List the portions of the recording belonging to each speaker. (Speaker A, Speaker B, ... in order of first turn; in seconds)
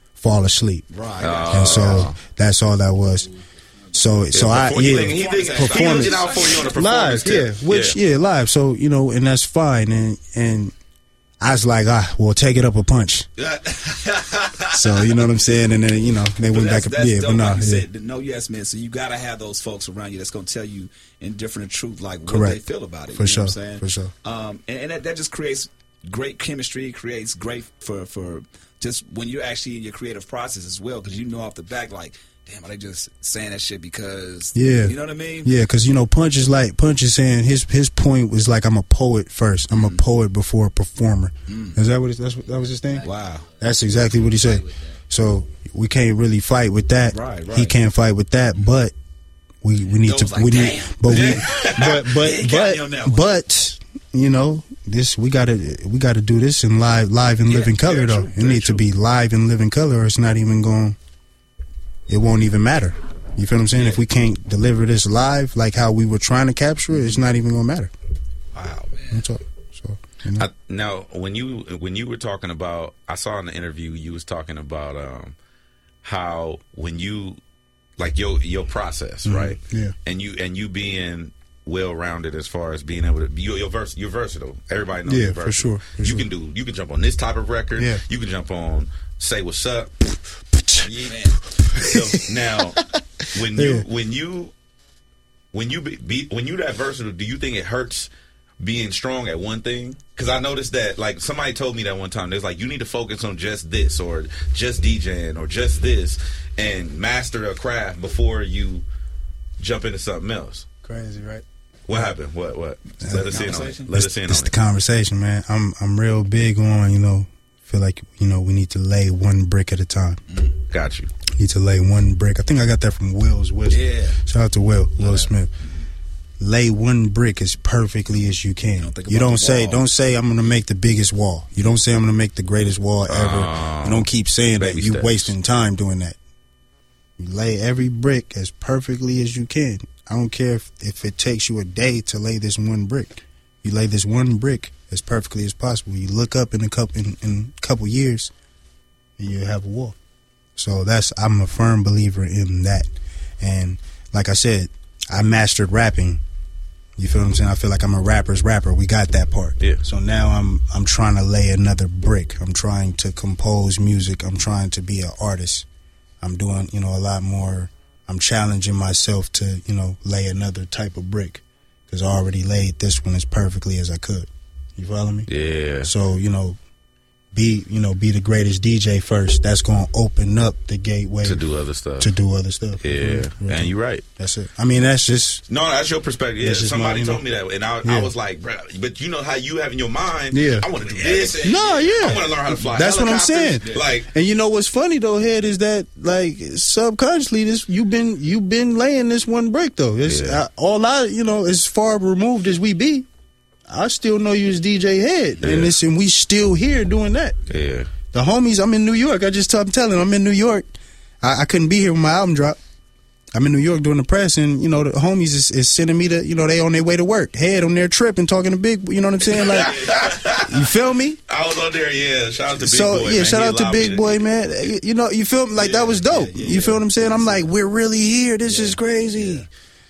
Speaker A: 0.2-0.9, 1.5-3.3, 3.9-10.7, 11.4-13.3, 14.7-17.9, 22.3-22.6, 23.1-24.1, 34.5-48.9, 49.6-61.0, 62.1-67.9, 69.1-70.5, 79.2-79.9, 85.0-86.2, 87.8-88.0, 90.6-90.8, 91.5-92.8, 93.4-93.8, 110.8-111.4, 113.0-120.2, 121.3-125.5, 126.4-136.2, 137.2-148.3, 149.2-149.9, 150.6-152.9, 153.4-156.2, 157.0-165.7, 166.2-175.3, 175.8-176.6, 177.3-181.4, 182.0-185.4, 186.4-187.2, 187.8-188.1, 190.3-190.7, 191.4-203.1, 203.7-207.4, 208.1-210.7, 211.2-212.6, 213.3-221.2, 222.6-229.5
Speaker B: 0.9-2.1, 4.8-7.4, 13.4-15.2, 16.5-35.5, 39.7-40.0, 41.5-41.8, 43.0-43.5, 47.1-47.8, 50.0-53.3, 57.5-58.9, 63.7-64.0, 66.9-67.3, 68.5-69.3, 90.8-91.4, 113.1-113.9, 120.3-120.6, 123.7-124.2, 125.0-125.8, 128.8-129.8, 190.8-192.2, 193.6-193.9, 219.3-220.2, 225.5-227.5, 228.4-229.5
Speaker C: 1.2-2.2, 4.3-8.0, 51.1-52.0, 70.3-75.3, 76.0-77.4, 78.0-90.0, 90.8-91.1, 91.7-92.8, 93.3-94.5, 95.5-108.8, 109.6-110.7, 111.9-114.5, 120.7-121.1, 133.1-135.3, 175.3-175.9, 181.2-182.1, 182.8-184.0, 185.5-194.1, 200.0-200.4, 205.4-205.8, 207.5-207.9, 219.3-220.7, 221.3-224.2